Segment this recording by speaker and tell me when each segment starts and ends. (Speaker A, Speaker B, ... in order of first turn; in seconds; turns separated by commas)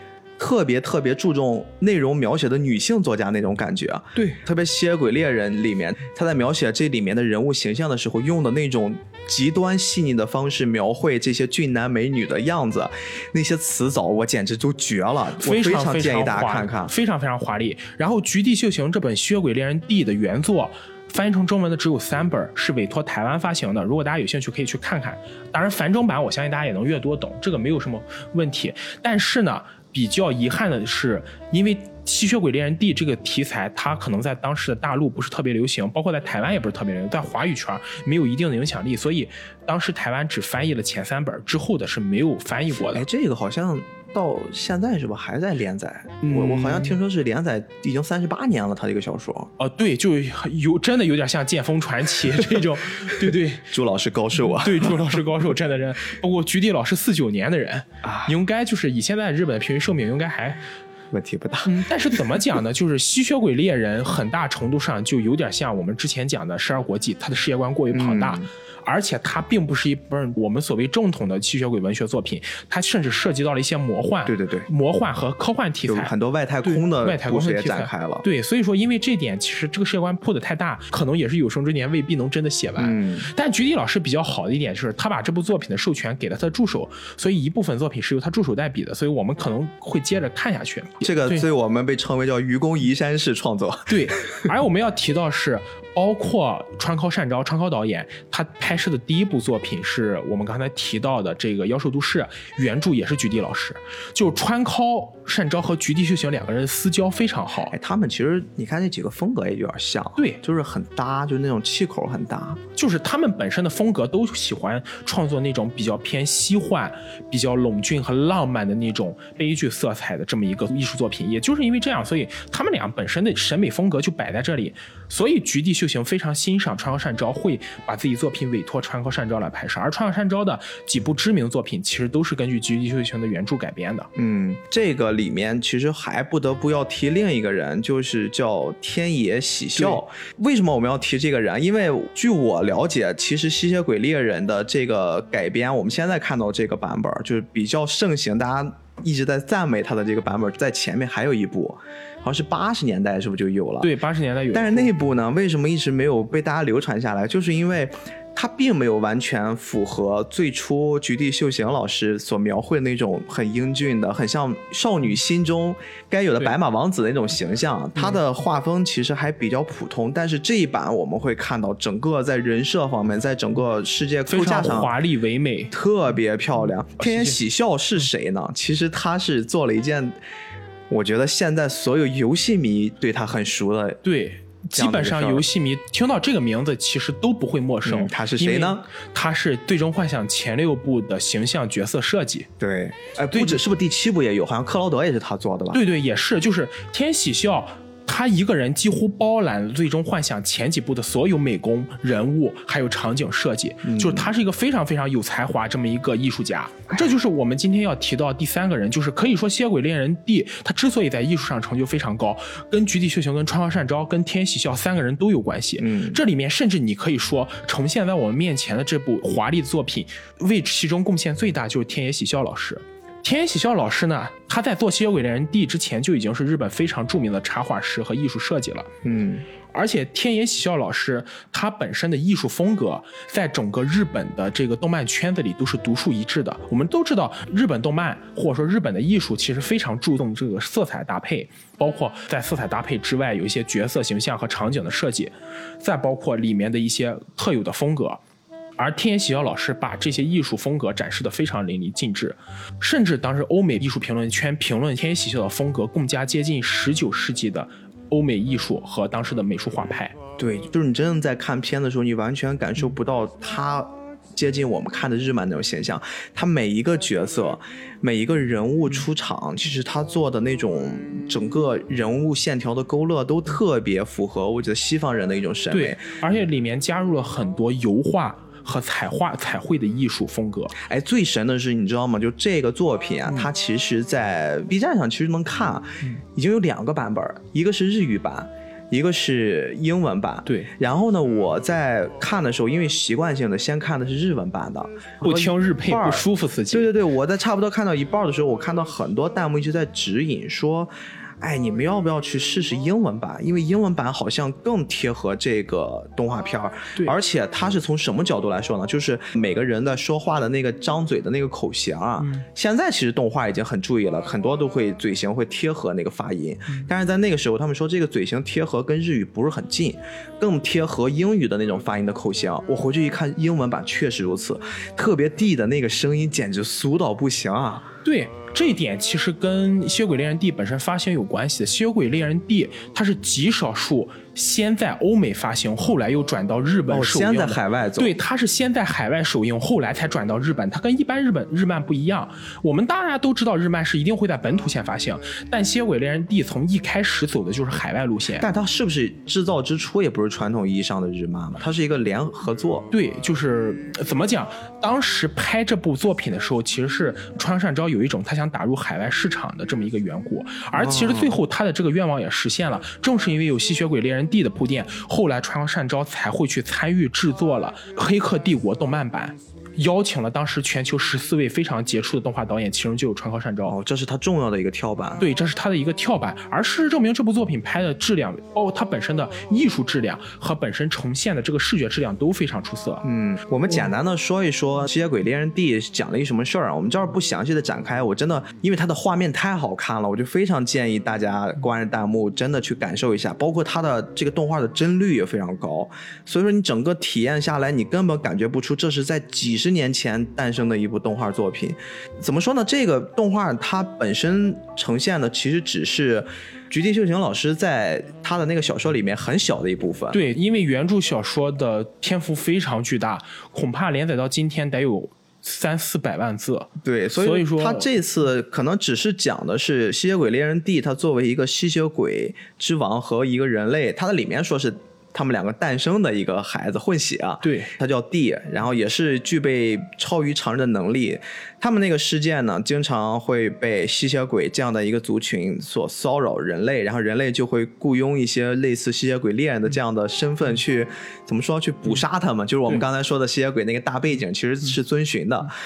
Speaker A: 0.4-16.9, Speaker B: 15.4-43.1, Speaker A: 42.8-49.5, Speaker B: 46.2-47.0, Speaker B: 49.6-53.7, Speaker A: 53.2-55.0, Speaker B: 54.5-60.6, Speaker A: 58.0-58.3, Speaker A: 61.1-61.7, Speaker B: 61.6-76.1, Speaker A: 67.9-68.5, Speaker A: 74.2-74.7, Speaker A: 75.8-78.2, Speaker B: 76.6-91.5, Speaker A: 82.8-83.3, Speaker A: 91.0-94.5, Speaker B: 93.9-107.8, Speaker A: 107.7-112.6, Speaker B: 112.8-134.1, Speaker A: 134.2-153.9, Speaker B: 153.8-154.9, Speaker A: 154.5-174.9, Speaker B: 174.3-175.7, Speaker A: 175.7-180.2, Speaker B: 177.0-177.4, Speaker A: 180.9-184.0, Speaker B: 184.0-192.5, Speaker A: 184.7-185.5, Speaker A: 187.8-188.8, Speaker A: 192.6-195.8, Speaker B: 193.3-193.6, Speaker B: 195.7-228.9, Speaker A: 203.8-204.3, Speaker A: 215.8-216.2, Speaker A: 229.0-229.4, Speaker B: 229.7-248.2, Speaker B: 248.8-260.2, Speaker A: 260.4-276.1, Speaker B: 275.7-280.8, Speaker A: 280.8-327.9, Speaker B: 283.3-283.5, Speaker B: 290.5-290.7, Speaker B: 295.2-296.9, Speaker B: 312.2-312.5, Speaker B: 328.0-348.5, Speaker A: 336.9-338.2, Speaker A: 348.4-352.9, Speaker B: 352.9-373.8, Speaker A: 360.7-361.4, Speaker A: 373.6-375.2, Speaker B: 375.2-383.1, Speaker A: 383.0-410.2, Speaker B: 410.1-417.9, Speaker A: 416.8-445.5, Speaker B: 427.4-427.7